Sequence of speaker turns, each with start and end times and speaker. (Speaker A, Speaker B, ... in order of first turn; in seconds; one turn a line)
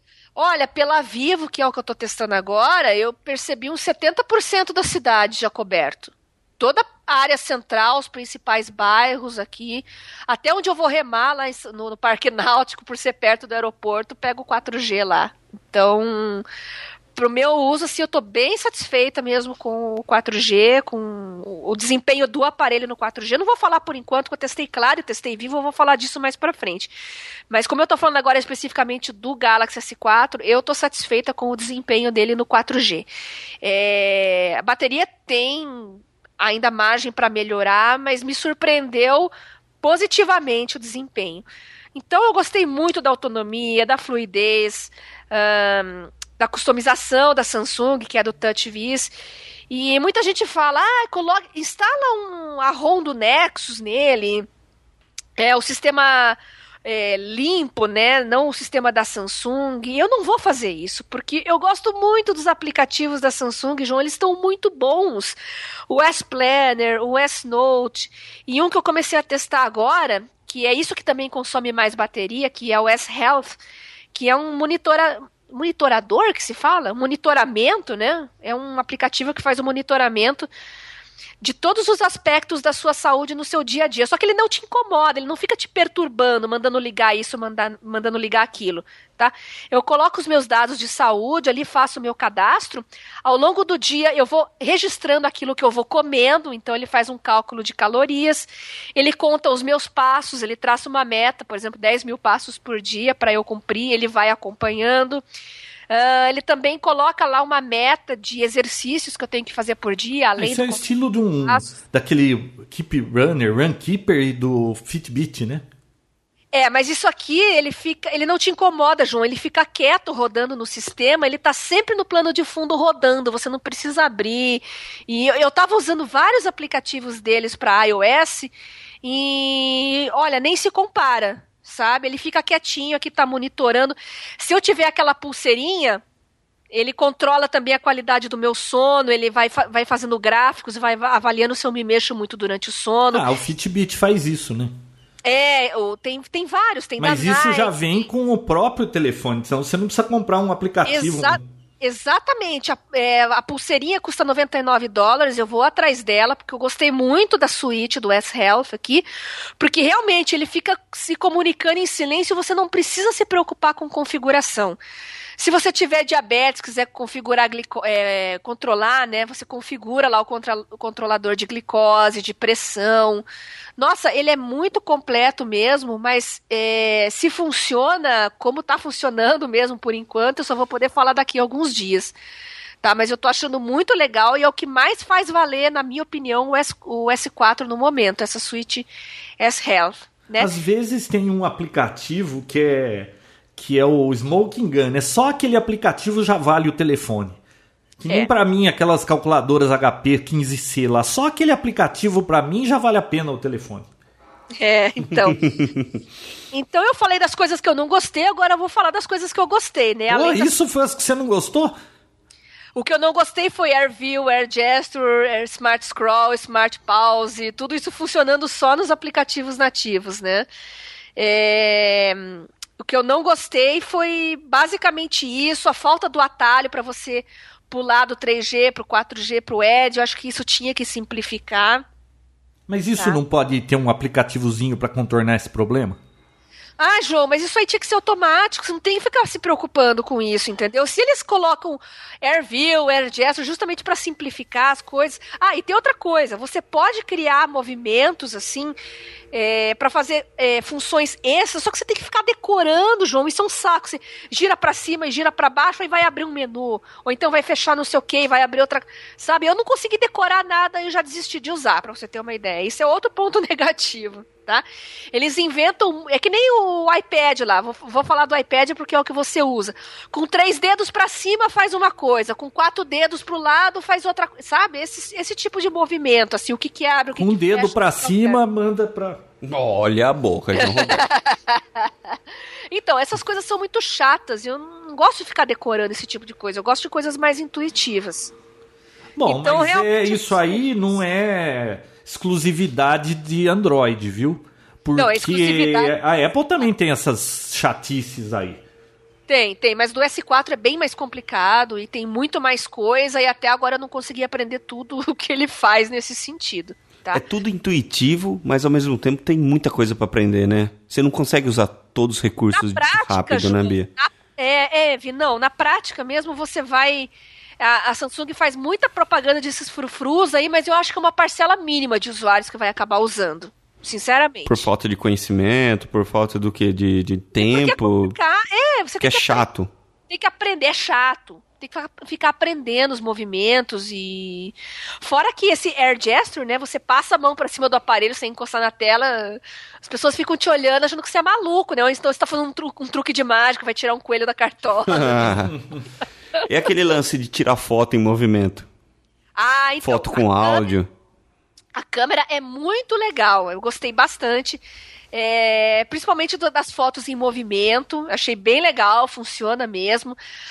Speaker A: 0.4-16.5
Speaker A: 17.2-26.9
Speaker A: 27.5-33.1
Speaker A: 33.6-49.1
Speaker A: 49.7-54.5
Speaker A: 55.4-65.4
Speaker A: 65.9-73.6
Speaker A: 74.1-80.5
Speaker A: 81.4-105.2
Speaker A: 105.9-110.8
Speaker B: 110.4-115.7
Speaker A: 116.5-136.0
Speaker A: 136.7-143.3
Speaker B: 143.1-144.8
Speaker A: 145.2-147.8
Speaker B: 147.0-151.4
Speaker A: 150.9-159.1
Speaker A: 159.6-164.8
Speaker A: 165.4-173.2
Speaker A: 173.8-182.2
Speaker A: 182.8-190.5
Speaker B: 190.4-197.4
Speaker B: 198.0-203.9
Speaker A: 204.6-205.7
Speaker C: 205.5-205.8
Speaker A: 206.5-210.5
Speaker B: 210.1-211.8
Speaker A: 212.8-220.5
Speaker A: 221.2-231.8
Speaker B: 232.7-236.0
Speaker A: 236.8-248.8
Speaker A: 249.3-278.4
Speaker B: 277.2-279.2
Speaker C: 279.4-281.1
Speaker A: 280.6-281.9
Speaker A: 282.7-288.3
Speaker B: 289.2-298.6
Speaker A: 289.2-290.6
Speaker A: 295.0-295.9
Speaker A: 299.3-307.2
Speaker C: 307.1-313.9
Speaker A: 312.5-324.7
Speaker C: 324.5-328.2
Speaker A: 327.4-329.4
Speaker C: 329.0-329.7
Speaker A: 330.1-345.3
Speaker C: 344.9-345.6
Speaker B: 345.3-345.8
Speaker C: 346.4-348.7
Speaker A: 349.4-350.7
Speaker C: 349.8-350.9
Speaker A: 351.7-360.2